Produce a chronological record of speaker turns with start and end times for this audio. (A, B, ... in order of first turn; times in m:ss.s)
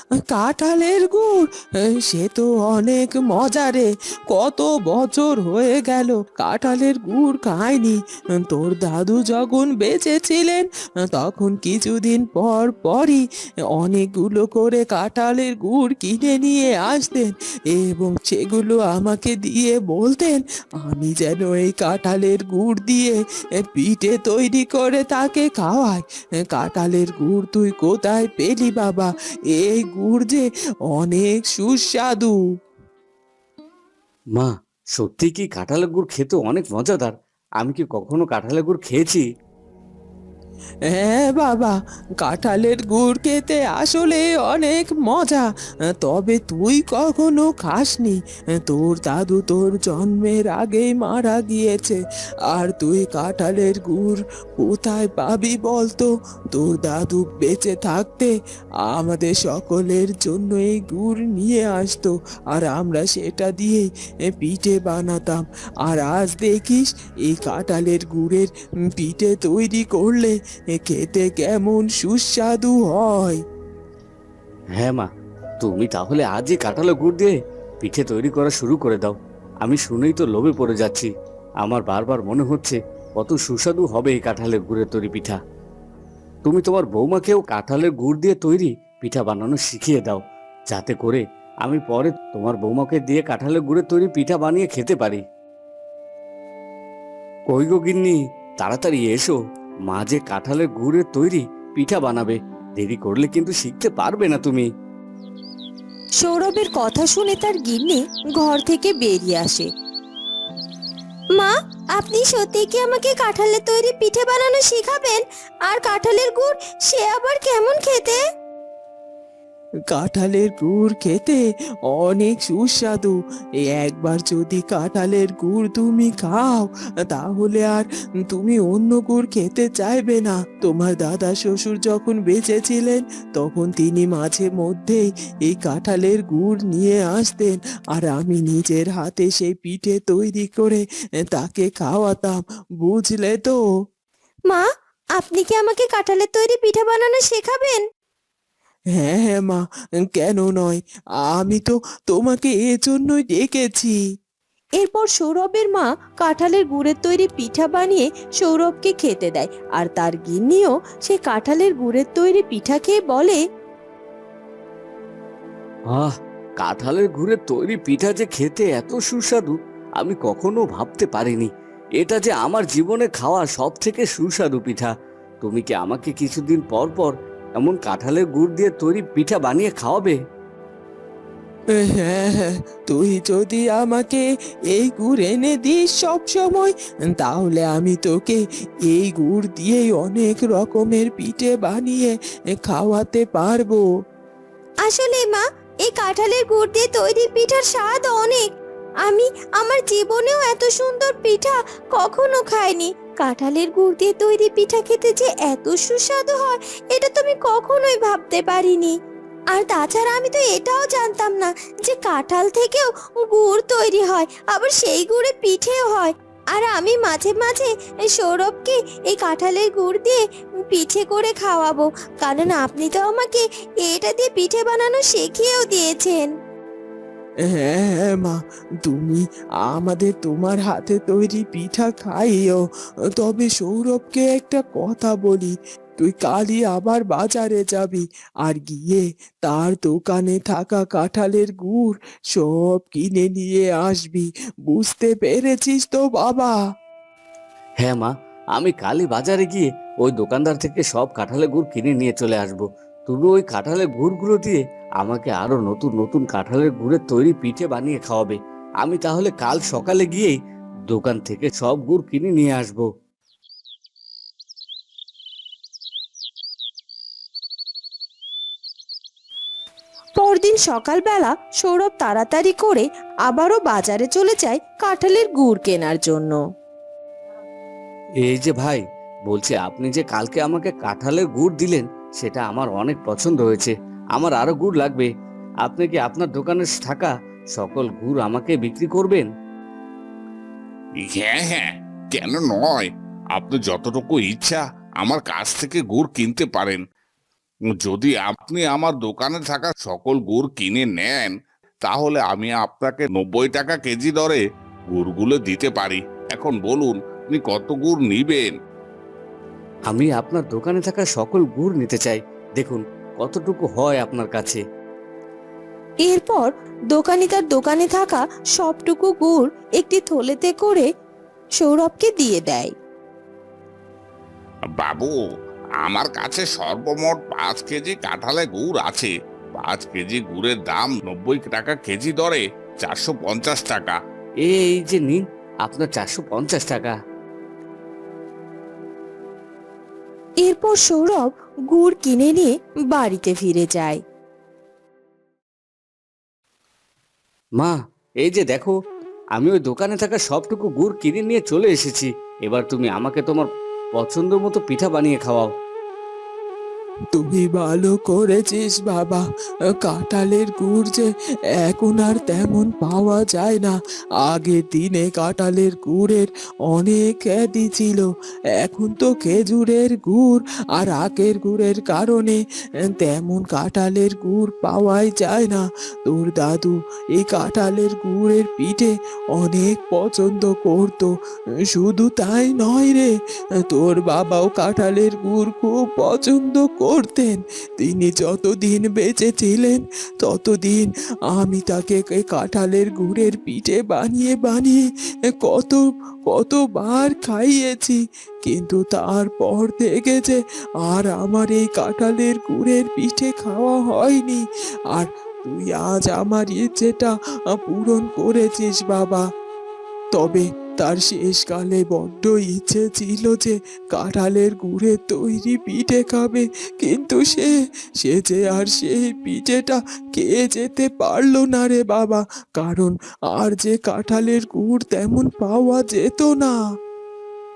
0:00.3-0:32.4 A
0:34.4-0:39.2 B
0:40.9-0:45.5 A
0:46.0-0:52.0 A
0:52.5-0:58.3 A
0:58.9-1:13.4 A
1:14.8-1:15.1 B
1:15.6-1:21.1 B
1:21.6-1:25.4 B
1:26.4-1:35.2 B
1:37.5-1:39.4 B
1:39.9-1:44.7 B
1:46.2-1:49.7 C
1:51.4-1:58.2 C
1:59.9-2:03.2 A
2:03.7-2:23.6 A
2:25.2-2:27.8 C
2:29.0-2:34.0 A
2:34.8-2:43.4 C
2:45.9-3:00.2 B
3:01.8-3:13.8 A
3:14.8-3:18.5 C
3:19.0-3:29.0 C
3:29.5-3:46.3 C
3:47.5-3:52.6 A
3:53.2-4:06.5 A
4:07.8-4:20.4 B
4:20.9-4:22.9 B
4:30.2-4:36.4 C
4:38.2-4:45.1 B
4:45.6-4:49.3 B
4:51.1-4:56.8 D
4:57.8-5:04.4 D
5:04.9-5:08.5 D
5:09.9-5:14.6 B
5:16.0-5:20.9 C
5:21.6-5:22.7 C
5:24.8-5:25.1 D
5:25.8-5:34.0 D
5:34.4-5:37.0 B
5:40.4-5:44.0 C
5:47.6-5:48.7 B
5:49.4-5:55.5 B
5:57.2-5:59.2 A
5:59.8-6:21.2 A
6:21.7-6:23.1 A
6:23.7-6:34.9 A
6:35.4-6:49.2 A
6:50.1-7:06.6 A